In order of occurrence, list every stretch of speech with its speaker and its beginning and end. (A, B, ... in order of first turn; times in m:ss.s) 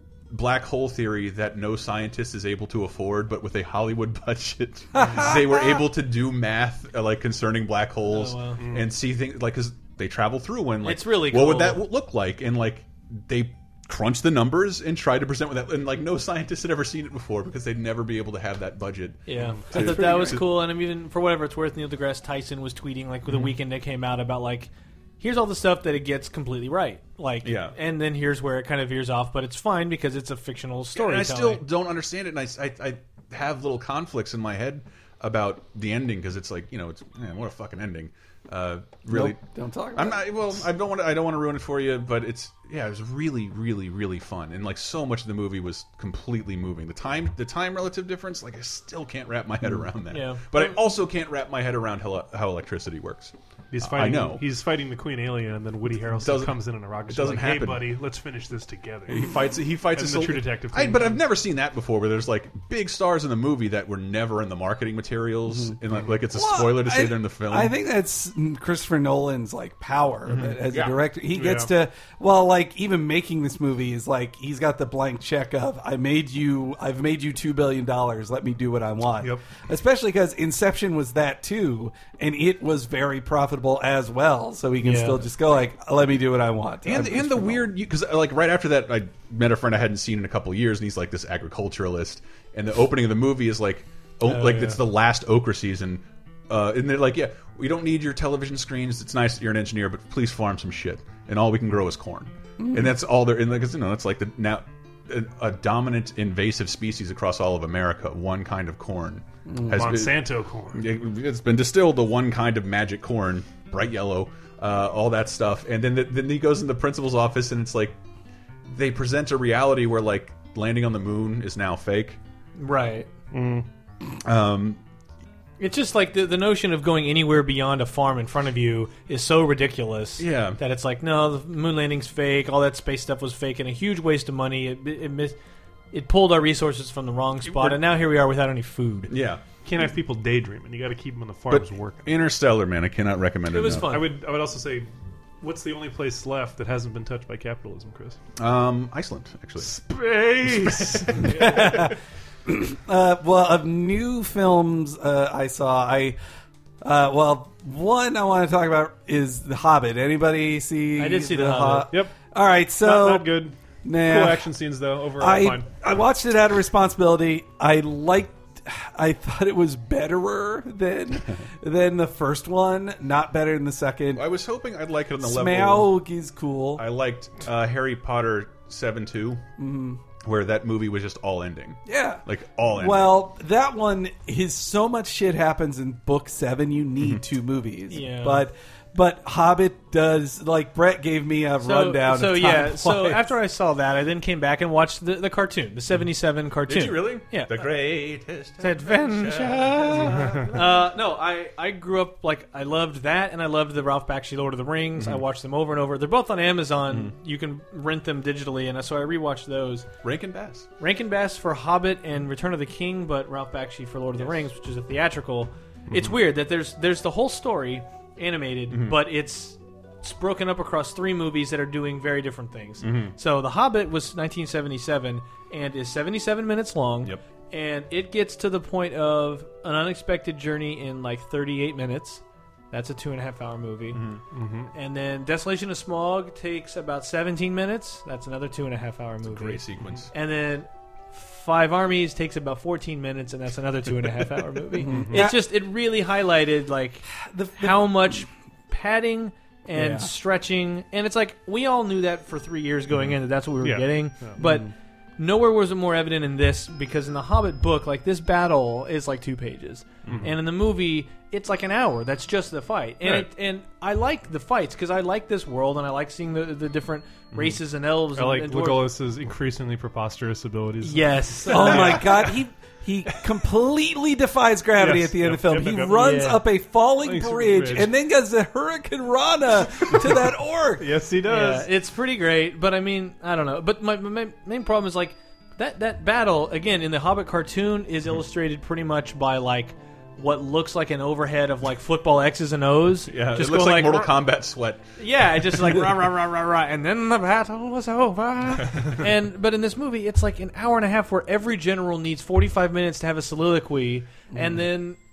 0:00.3-0:20.4 A
0:04.9-0:05.8 B
0:08.1-0:08.6 C
0:08.6-0:08.9 D
0:10.8-0:11.8 C
0:19.3-0:31.6 C
0:19.4-0:19.6 D
0:27.4-0:27.8 A
0:31.0-0:39.4 A
0:39.1-0:40.2 B
0:40.0-0:54.4 A
0:50.1-0:50.8 C
0:53.7-1:01.2 D
0:56.1-0:57.9 A
0:59.1-1:07.7 A
1:05.5-1:05.8 B
1:06.3-1:27.7 B
1:10.6-1:11.0 A
1:11.3-1:11.7 D
1:24.8-1:25.3 C
1:26.8-1:50.2 A
1:34.3-1:34.8 C
1:42.6-1:42.9 B
1:49.5-1:49.9 B
1:49.6-1:50.9 D
1:50.7-1:58.0 A
1:58.7-2:02.2 A
2:02.6-2:03.1 C
2:03.3-2:03.7 D
2:04.2-2:04.8 A
2:05.6-2:15.4 C
2:10.2-2:10.6 A
2:15.9-2:19.1 C
2:17.5-2:17.8 A
2:19.1-2:19.4 A
2:19.6-2:22.1 D
2:21.5-2:24.0 A
2:23.5-2:24.1 C
2:23.8-2:24.9 D
2:25.4-2:28.2 D
2:28.4-2:29.8 A
2:29.6-2:31.9 D
2:30.4-2:31.3 A
2:31.3-2:36.2 B
2:36.8-2:44.5 B
2:41.0-2:41.9 C
2:42.8-2:45.7 D
2:45.2-2:54.3 B
2:54.2-2:56.0 A
2:55.2-2:56.9 B
2:56.8-2:59.4 A
2:59.6-3:00.0 B
3:00.2-3:03.2 A
3:01.9-3:13.3 B
3:07.9-3:08.5 C
3:11.6-3:17.6 C
3:16.7-3:20.8 A
3:18.6-3:29.9 C
3:30.0-3:30.7 A
3:30.8-3:54.0 C
3:38.7-3:39.0 A
3:42.8-3:43.2 A
3:53.9-3:54.2 A
3:54.3-3:54.7 D
3:54.7-4:28.9 C
3:59.3-4:00.1 A
4:04.8-4:05.4 B
4:04.9-4:05.3 D
4:07.3-4:07.9 B
4:09.7-4:10.1 B
4:13.6-4:14.4 D
4:14.4-4:14.7 B
4:20.1-4:20.3 D
4:28.1-4:32.4 D
4:30.8-4:32.3 C
4:31.5-4:40.9 B
4:34.8-4:36.4 D
4:36.0-4:36.4 C
4:37.0-4:37.9 D
4:40.8-4:41.7 D
4:41.2-4:54.2 C
4:53.1-4:54.9 A
4:55.0-5:05.0 C
4:55.4-4:55.8 A
5:04.3-5:04.6 B